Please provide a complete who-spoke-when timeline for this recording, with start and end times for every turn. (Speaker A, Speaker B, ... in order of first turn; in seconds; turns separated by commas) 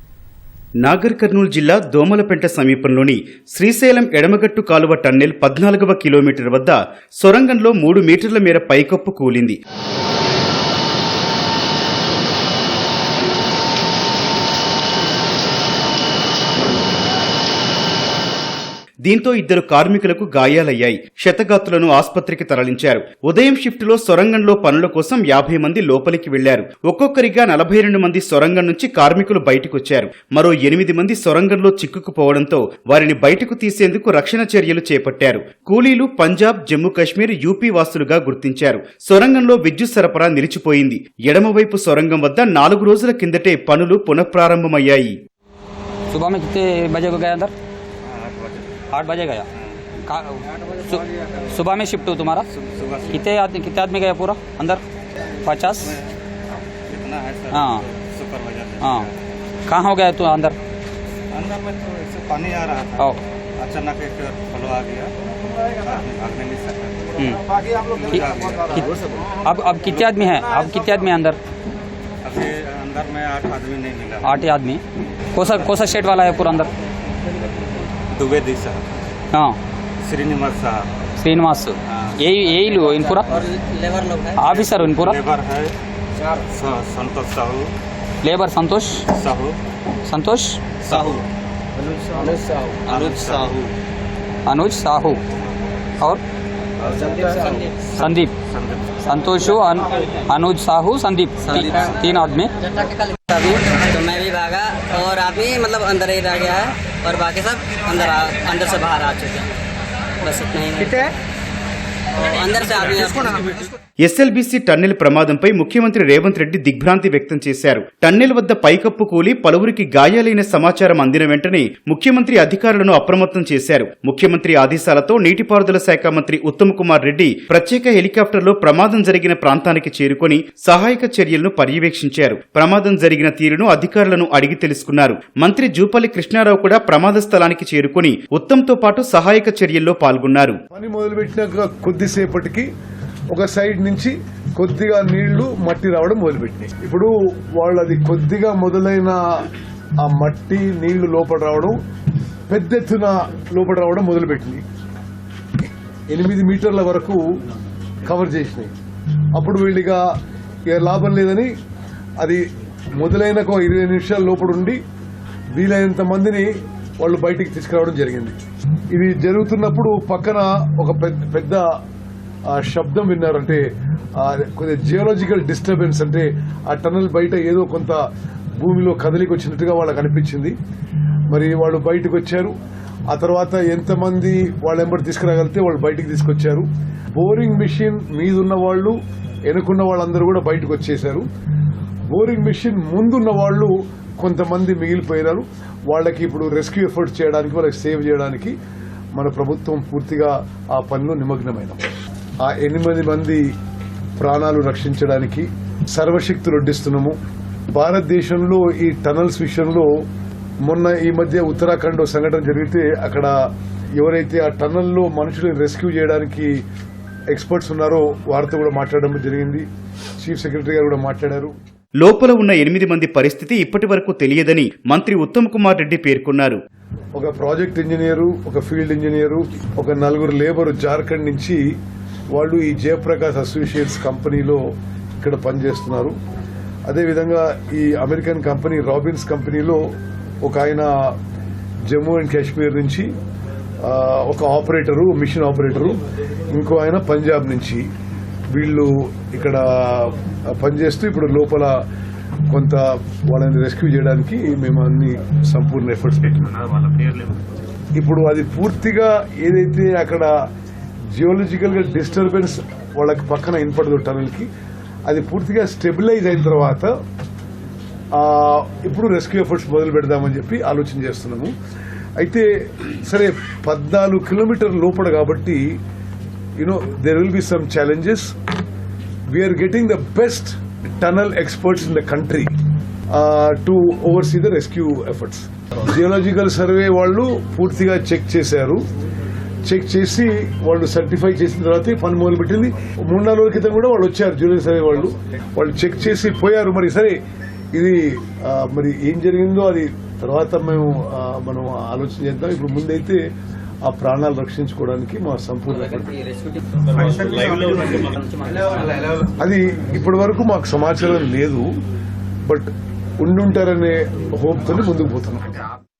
Speaker A: 0.8-9.6, Speaker A: 19.1-45.2, Speaker B: 46.1-47.5, Speaker C: 48.1-48.8, Speaker B: 48.9-49.5, Speaker B: 50.0-52.5, Speaker C: 52.5-53.2, Speaker B: 53.1-54.8, Speaker B: 55.4-56.0, Speaker C: 55.9-56.1, Speaker C: 56.9-59.1, Speaker B: 57.5-57.9, Speaker B: 58.8-59.1, Speaker B: 59.7-60.6, Speaker C: 61.3-65.1, Speaker C: 65.7-67.1, Speaker B: 67.2-67.4, Speaker C: 67.8-68.9, Speaker B: 68.1-71.4, Speaker C: 72.2-74.4, Speaker B: 74.2-74.8, Speaker B: 75.3-76.7, Speaker C: 78.1-78.8, Speaker C: 80.0-80.9, Speaker B: 81.2-83.4, Speaker D: 83.0-84.4, Speaker B: 84.4-85.2, Speaker C: 84.5-85.7, Speaker C: 86.3-87.7, Speaker B: 88.2-89.1, Speaker C: 89.1-89.6, Speaker B: 90.0-90.6, Speaker C: 90.8-91.2, Speaker D: 92.2-93.5, Speaker C: 92.9-93.7, Speaker B: 94.5-95.2, Speaker C: 96.8-99.0, Speaker B: 98.0-98.3, Speaker B: 99.0-102.5, Speaker D: 101.5-102.0, Speaker D: 102.6-109.5, Speaker D: 110.2-111.1, Speaker D: 112.2-113.5, Speaker A: 114.0-140.6, Speaker E: 140.7-142.7, Speaker E: 143.3-149.5, Speaker E: 150.0-151.8, Speaker E: 152.5-154.6, Speaker E: 156.1-157.2, Speaker E: 158.1-158.7, Speaker E: 159.4-160.0, Speaker E: 160.7-161.5, Speaker E: 163.0-164.8, Speaker E: 165.6-166.5, Speaker E: 167.0-168.4, Speaker E: 168.9-171.7, Speaker E: 172.5-173.7, Speaker E: 174.2-178.0, Speaker E: 178.6-180.6, Speaker E: 181.3-182.6, Speaker E: 183.1-189.0, Speaker E: 189.5-191.3, Speaker E: 192.1-198.5, Speaker E: 199.2-201.8, Speaker E: 202.4-203.4, Speaker E: 204.2-207.2, Speaker E: 207.7-209.9, Speaker E: 210.7-213.3, Speaker E: 214.0-216.6, Speaker E: 217.3-219.7, Speaker E: 220.2-221.5, Speaker A: 222.0-226.6, Speaker E: 227.2-231.6, Speaker E: 232.3-234.6, Speaker E: 235.2-236.2, Speaker E: 236.9-239.8, Speaker E: 240.4-241.2, Speaker E: 241.9-243.1, Speaker E: 243.8-247.8, Speaker E: 248.5-251.8, Speaker E: 252.5-256.9, Speaker C: 256.9-257.3, Speaker E: 257.9-260.3, Speaker E: 261.2-264.5, Speaker E: 265.1-266.9, Speaker E: 268.1-271.5, Speaker E: 272.2-275.8, Speaker E: 276.6-278.3, Speaker E: 279.3-282.5, Speaker E: 283.1-288.8, Speaker E: 289.7-297.2, Speaker E: 297.7-303.2, Speaker E: 303.9-306.1, Speaker B: 306.2-308.7, Speaker E: 307.6-308.0, Speaker E: 309.2-311.7, Speaker E: 313.2-315.5